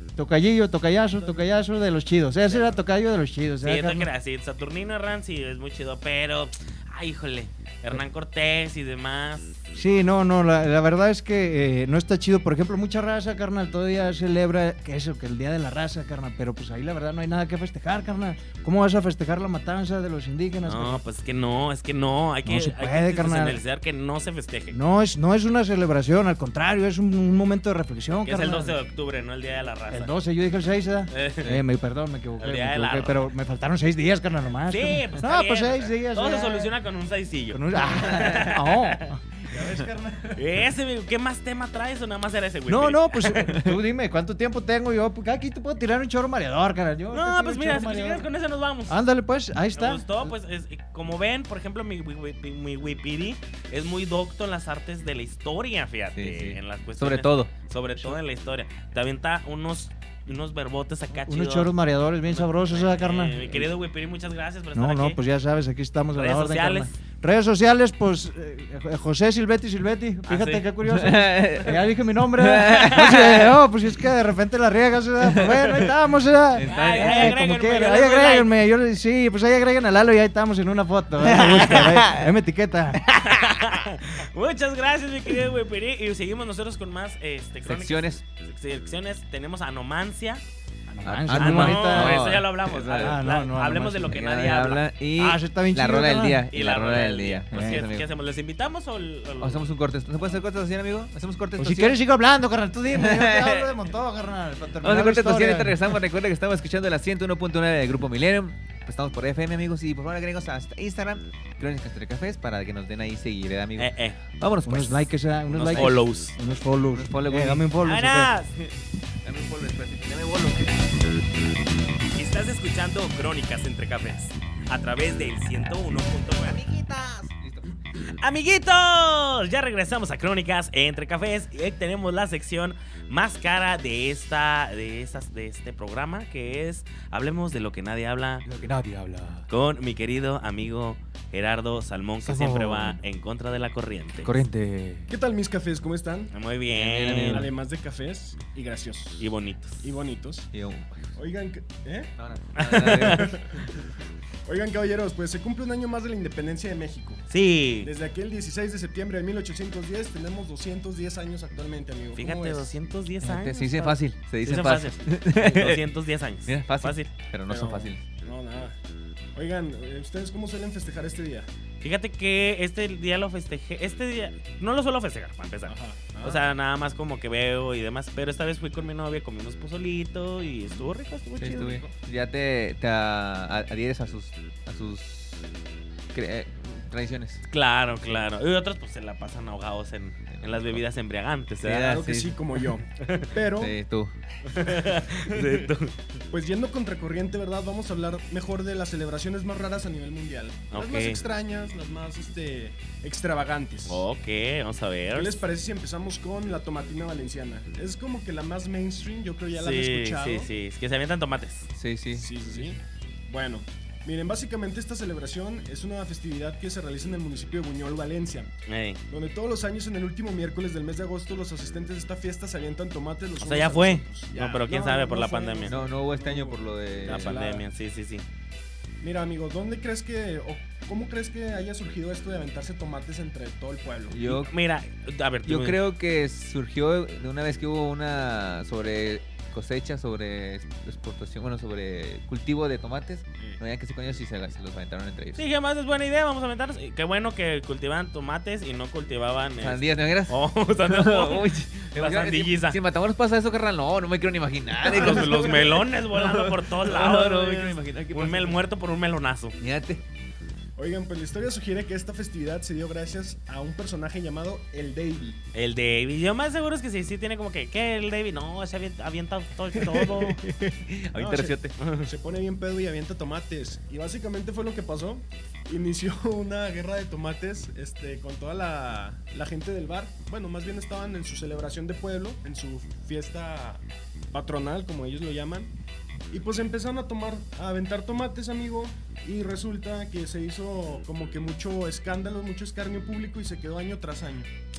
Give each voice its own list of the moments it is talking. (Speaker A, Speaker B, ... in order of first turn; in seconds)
Speaker A: 0.2-4.1, 9.7-21.0, 22.4-23.6, 24.7-28.8, 29.9-36.7, 37.5-40.6, 42.7-48.3, 48.9-50.3, 61.2-63.7, 64.7-83.1, 90.9-92.4, 93.0-94.2, 95.2-96.4, 97.5-97.8, 101.6-106.0, 114.6-118.3
Speaker B: 2.5-2.8, 3.6-9.6, 20.6-24.8, 28.2-30.1, 31.1-31.5, 32.4-33.3, 34.7-39.0, 40.3-43.5, 47.1-49.0, 49.7-61.7, 62.2-65.2, 66.1-66.9, 70.2-70.7, 76.6-78.5, 83.1-90.4, 91.3-94.8, 96.5-99.6, 113.8-114.2, 115.7-116.3, 117.8-118.5, 122.1-126.6, 128.0-138.4, 139.5-144.3, 146.3-147.5, 149.2-149.8, 152.5-153.3, 157.3-157.9, 162.2-167.1, 171.8-181.8, 187.5-191.9, 193.0-193.3, 194.5-195.9, 200.7-201.2, 203.9-205.4, 209.6-211.7, 218.7-219.0, 223.4-225.7, 227.1-228.2, 234.4-235.8, 245.4-252.8, 254.8-259.6, 265.5-270.4, 271.8-272.1
Speaker C: 56.1-57.5, 70.8-73.5, 75.3-75.9, 76.5-77.4, 81.2-82.2, 87.6-88.2, 91.0-93.2, 94.1-98.1, 99.4-102.0, 102.9-103.8, 104.8-116.0, 116.9-117.7, 119.2-120.8, 126.5-127.8, 138.4-139.5, 142.2-143.0, 144.2-145.1, 146.7-147.5, 150.5-151.1, 152.2-153.4, 163.2-165.8, 166.5-168.0, 181.4-185.5, 186.1-187.4, 190.3-190.8, 191.6-192.6, 193.6-194.1, 211.7-212.3, 225.7-227.4, 234.1-234.5, 235.4-245.4, 249.6-258.6, 259.6-260.0, 270.4-271.8
Speaker D: 145.1-146.3, 147.3-150.5, 151.2-152.1, 153.0-153.6, 154.4-157.2, 157.8-162.8, 167.5-168.8, 169.3-171.5, 175.7-176.4, 191.8-193.8, 196.3-204.1, 205.1-210.5, 212.1-218.5, 219.1-227.6, 229.0-234.4, 260.8-265.4, 271.1-285.7, 286.3-294.5